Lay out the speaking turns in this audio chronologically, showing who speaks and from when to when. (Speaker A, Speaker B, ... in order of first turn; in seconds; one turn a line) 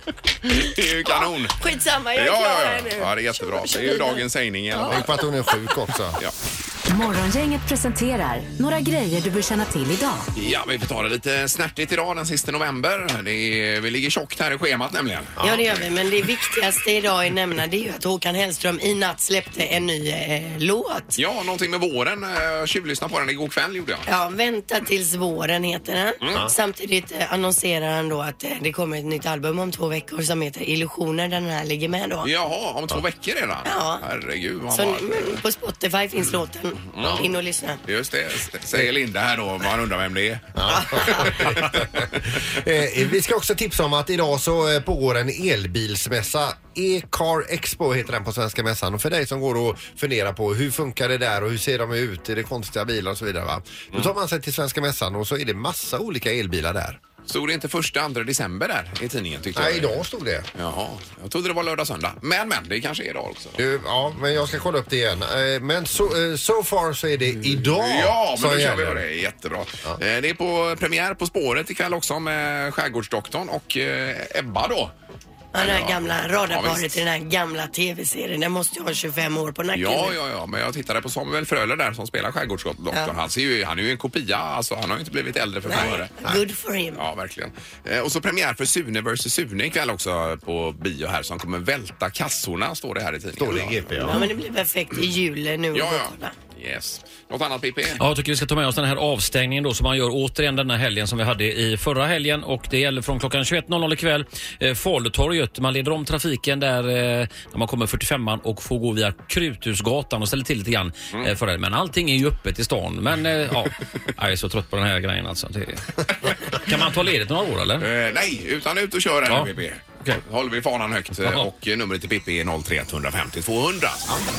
Speaker A: 0.4-1.6
Speaker B: 0.6-5.0
Speaker A: 2.2-5.2
Speaker C: 4.8-6.2
Speaker D: 6.9-10.3
Speaker A: 10.3-15.8
Speaker B: 15.4-21.2
Speaker A: 21.2-24.1
Speaker B: 24.1-32.3
Speaker A: 32.2-35.4
Speaker B: 33.6-34.0
Speaker B: 34.7-37.8
Speaker A: 36.9-37.3
Speaker A: 37.9-42.4
Speaker C: 40.5-57.0
Speaker B: 40.8-41.4
Speaker A: 57.3-60.0
Speaker C: 59.5-60.5
Speaker A: 60.5-63.6
Speaker C: 63.6-69.0
Speaker A: 67.7-74.9
Speaker B: 75.5-80.2
Speaker A: 75.6-77.0
Speaker A: 79.8-86.1
Speaker B: 85.7-87.0
Speaker A: 87.0-94.2
Speaker C: 93.4-94.2
Speaker B: 94.0-96.3
Speaker A: 95.7-98.0
Speaker E: 98.0-117.9
Speaker A: 117.8-124.2